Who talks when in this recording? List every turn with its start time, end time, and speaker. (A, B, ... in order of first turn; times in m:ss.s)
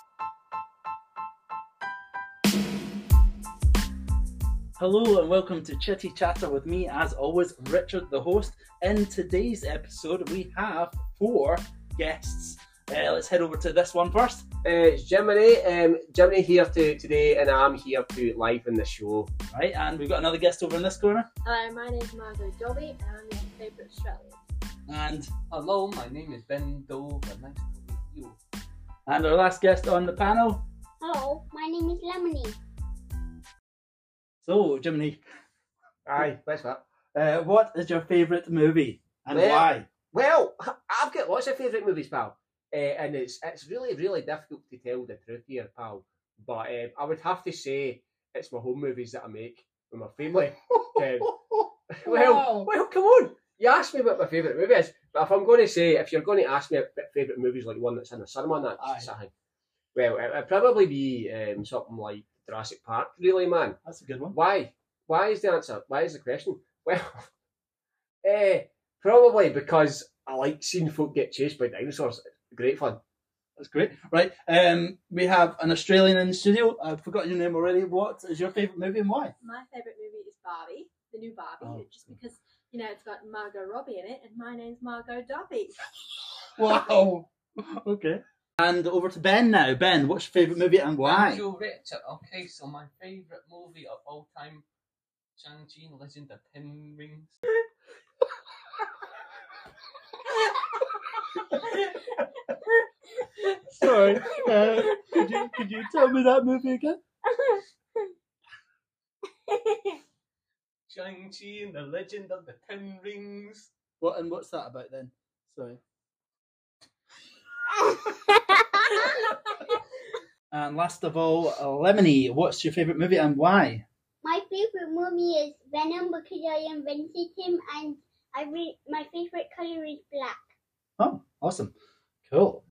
0:04.8-0:14.5 A
0:14.6-0:19.3 B
0:19.5-0:21.3 A
0:21.4-0:24.4 C
0:24.9-0:25.3 A
0:25.5-0:28.4 D
0:29.1-0:30.6 A
0:31.0-0:32.5 E
0:34.4-0:35.2 A
0:36.1-0:36.8 B
0:37.1-0:39.9 A
0:39.3-0:51.3 B
0:51.0-0:52.7 A
0:51.9-0:59.3 B
0:58.8-0:59.1 A
1:00.0-1:03.8 B
1:03.8-1:04.4 A
1:04.3-1:07.3 B
1:08.2-1:13.0 B
1:13.6-1:19.3 A
1:19.4-1:25.8 C
1:21.6-1:21.9 A
1:26.6-1:31.5 A
1:31.0-1:34.6 D
1:35.4-1:37.4 D
1:43.2-1:45.6 C
1:43.7-1:47.0 A
1:47.3-1:47.6 C
1:49.5-1:50.0 C
1:50.9-1:53.7 D
1:54.0-1:55.8 A
2:00.5-2:03.8 A
2:04.2-2:10.3 E
2:11.0-2:11.7 A
2:12.3-2:12.6 A